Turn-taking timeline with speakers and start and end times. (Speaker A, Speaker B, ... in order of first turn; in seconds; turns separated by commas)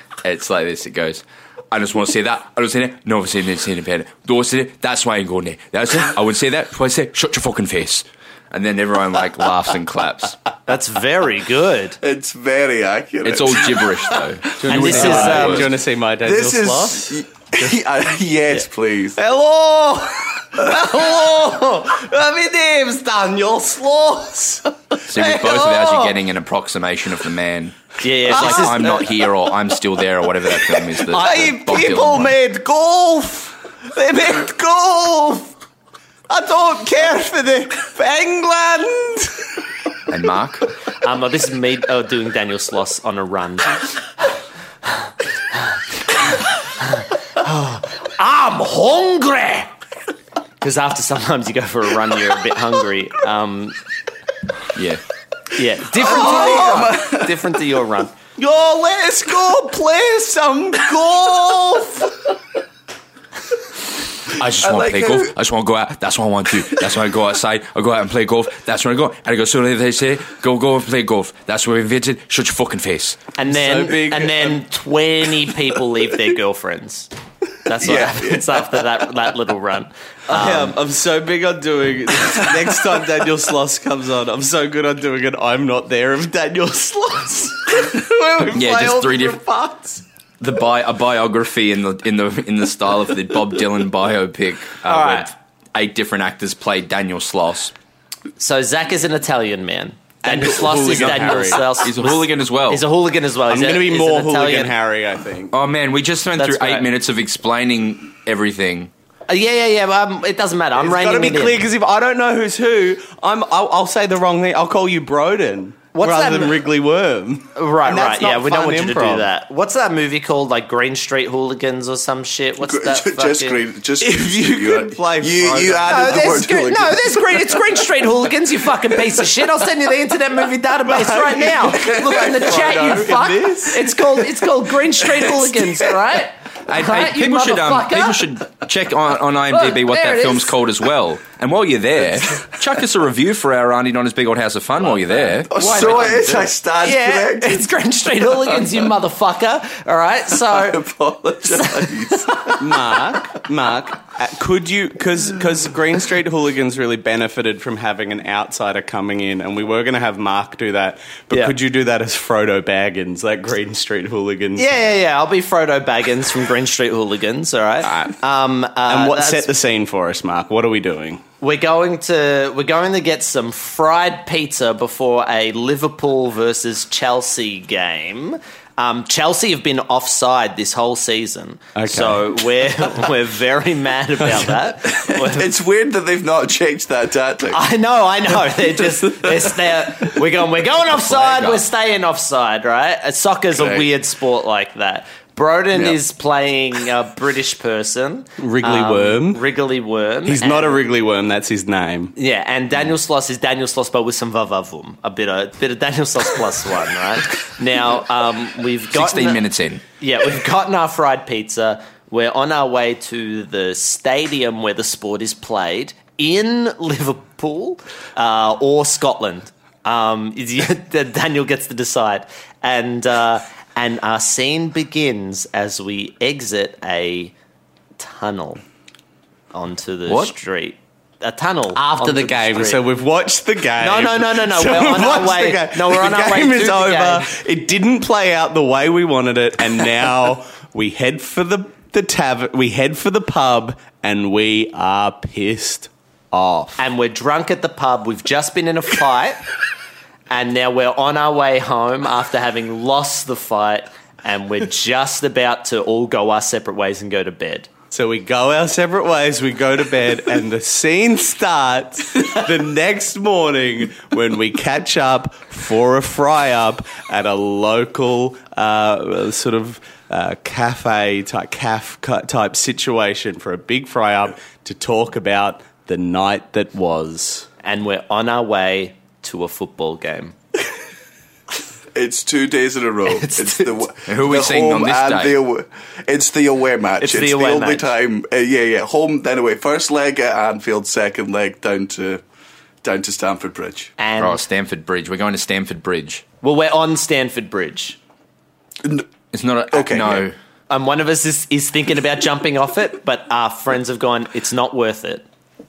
Speaker A: 0.2-10.4, Speaker B: 10.7-12.0, Speaker C: 12.0-14.2, Speaker A: 13.2-15.7, Speaker D: 14.6-17.2, Speaker B: 14.7-15.7, Speaker C: 14.8-15.5, Speaker C: 16.2-19.2, Speaker D: 19.2-26.1, Speaker A: 25.1-32.4, Speaker B: 28.0-28.9, Speaker D: 28.3-29.6, Speaker D: 30.5-35.5, Speaker D: 36.3-39.4, Speaker A: 40.1-40.7, Speaker B: 41.0-43.8, Speaker B: 46.1-49.7, Speaker B: 50.6-53.8, Speaker A: 54.7-55.0, Speaker B: 55.5-58.1, Speaker C: 56.0-57.5, Speaker D: 56.0-56.9, Speaker D: 58.4-62.1, Speaker A: 64.3-73.2, Speaker C: 64.6-65.3, Speaker B: 73.4-77.1, Speaker D: 73.4-74.6, Speaker B: 77.6-80.8, Speaker C: 77.8-78.8, Speaker D: 80.3-90.0, Speaker A: 88.5-89.4, Speaker A: 90.4-97.7, Speaker B: 94.9-95.3, Speaker B: 98.4-104.7, Speaker D: 100.2-101.7, Speaker A: 100.9-102.8, Speaker D: 103.5-105.5, Speaker A: 105.5-108.9, Speaker B: 106.4-106.9, Speaker B: 109.3-111.6, Speaker D: 110.8-119.3, Speaker B: 115.9-116.6, Speaker B: 117.5-123.6, Speaker C: 122.6-127.8, Speaker D: 124.0-126.4, Speaker B: 125.9-138.2, Speaker D: 130.9-134.0, Speaker C: 131.6-132.9, Speaker A: 136.7-146.0, Speaker B: 139.5-140.6, Speaker C: 145.5-147.7, Speaker B: 145.6-150.8, Speaker C: 148.4-148.8, Speaker C: 150.4-153.0, Speaker B: 151.5-151.9, Speaker D: 152.6-164.7, Speaker B: 164.6-169.5, Speaker D: 167.8-168.2, Speaker D: 168.8-171.2, Speaker B: 171.4-185.5, Speaker D: 181.8-182.4, Speaker C: 184.9-187.6, Speaker B: 187.5-200.8, Speaker A: 190.9-191.6, Speaker C: 193.5-193.9, Speaker C: 195.7-196.0, Speaker D: 198.4-199.4, Speaker D: 200.2-202.1, Speaker B: 202.1-209.4, Speaker A: 208.9-209.8, Speaker B: 210.0-227.3, Speaker B: 228.0-228.6, Speaker B: 229.5-232.8, Speaker D: 231.8-246.8, Speaker B: 233.8-237.3, Speaker B: 246.8-249.4, Speaker B: 250.3-257.7, Speaker D: 257.9-277.5, Speaker B: 277.6-280.4, Speaker C: 281.9-292.2, Speaker B: 283.1-283.8, Speaker A: 284.1-285.4, Speaker B: 287.0-287.9, Speaker C: 292.8-293.9, Speaker B: 294.0-294.4, Speaker A: 294.2-296.2, Speaker B: 296.4-298.0, Speaker A: 299.3-300.4, Speaker C: 299.7-300.3, Speaker B: 300.7-305.2